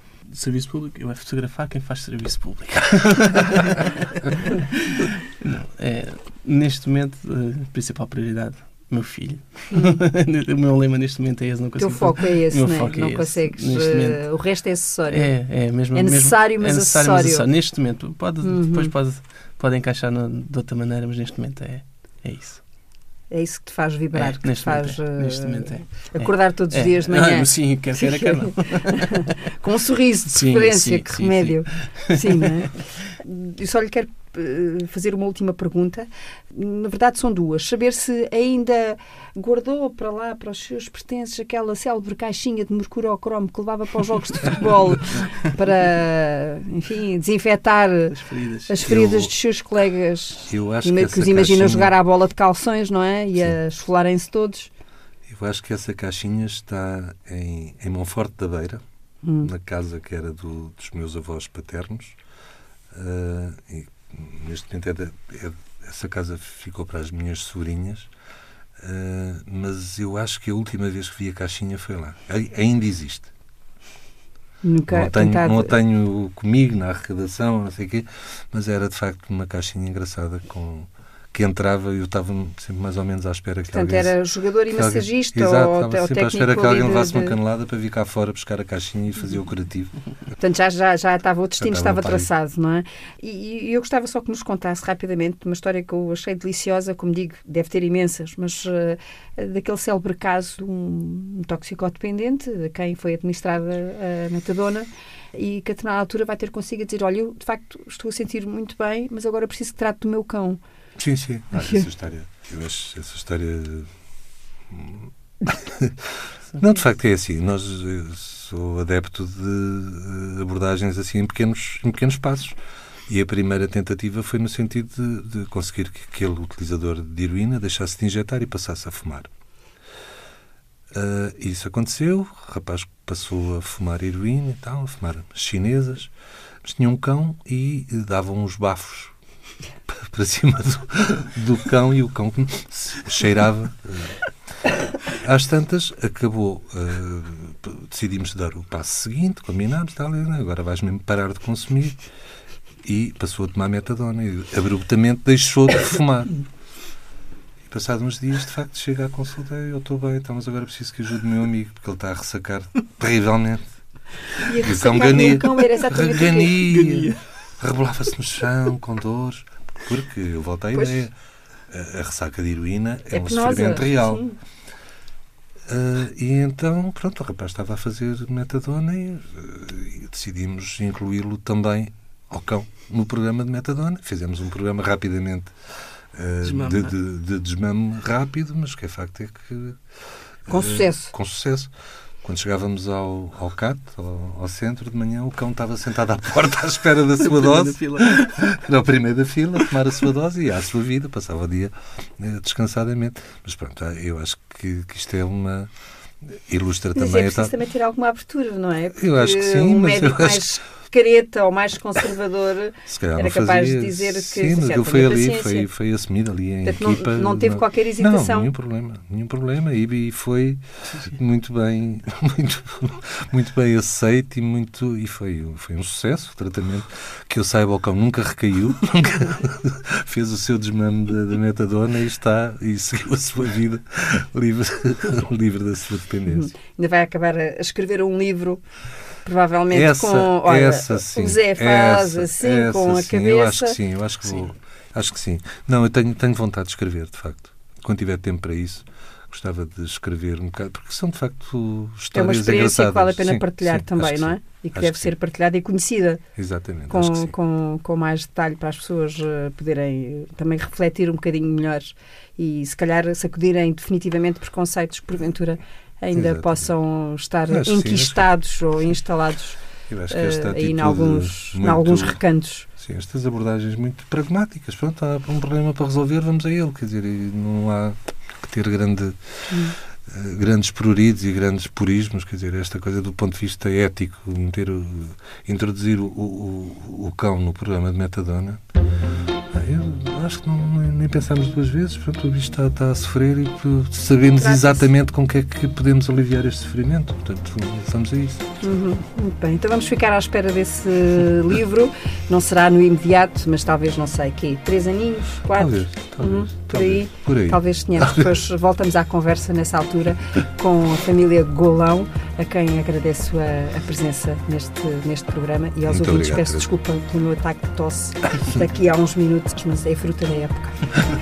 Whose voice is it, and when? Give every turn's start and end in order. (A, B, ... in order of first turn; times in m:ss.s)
0:00.3-0:14.3 A
0:09.7-0:10.0 B
0:11.8-0:17.5 B
0:15.1-0:22.6 A
0:18.4-0:18.9 B
0:23.3-0:54.7 B
0:24.1-0:29.3 A
0:30.3-0:32.6 A
0:48.1-0:48.7 A
0:48.8-0:49.3 C
0:50.5-0:51.9 C
0:55.3-0:58.8 C
0:59.2-0:59.5 B
0:59.4-1:02.2 C
1:02.9-1:08.1 C
1:08.8-1:13.3 C
1:14.6-1:15.7 B
1:14.9-1:24.2 C
1:23.7-1:27.3 B
1:24.7-1:29.9 C
1:30.4-1:50.6 B
1:31.6-1:32.3 C
1:51.0-1:53.9 C
1:54.7-2:09.3 C
2:10.9-2:16.1 C
2:16.6-2:19.1 C
2:19.9-2:24.2 C
2:25.1-2:32.0 C
2:32.8-2:36.3 C
2:37.7-2:43.6 C
2:44.4-2:46.8 B
2:44.5-2:51.1 C
2:46.7-2:47.2 A
2:51.7-2:54.2 C
2:53.1-2:54.3 B
2:55.7-3:05.5 C
3:06.1-3:09.8 C
3:06.4-3:06.9 A
3:10.4-3:11.7 C
3:10.5-3:11.1 B
3:12.2-3:25.7 C
3:17.2-3:18.6 A
3:26.2-3:27.5 C
3:26.9-3:35.7 B
3:29.0-3:30.5 C
3:32.9-3:56.5 C
3:36.6-3:38.5 B
3:56.3-3:58.6 B
3:59.2-4:03.8 B
3:59.7-4:15.1 C
4:12.1-4:16.2 B
4:16.4-4:17.3 C
4:16.9-4:32.6 B
4:26.1-4:26.7 C
4:27.5-4:28.3 C
4:29.9-4:32.2 C
4:32.8-4:48.6 C
4:39.5-4:39.7 B
4:49.5-4:58.4 C
4:54.3-4:54.9 B
4:58.6-5:21.0 B
5:05.5-5:08.3 C
5:15.9-5:16.7 C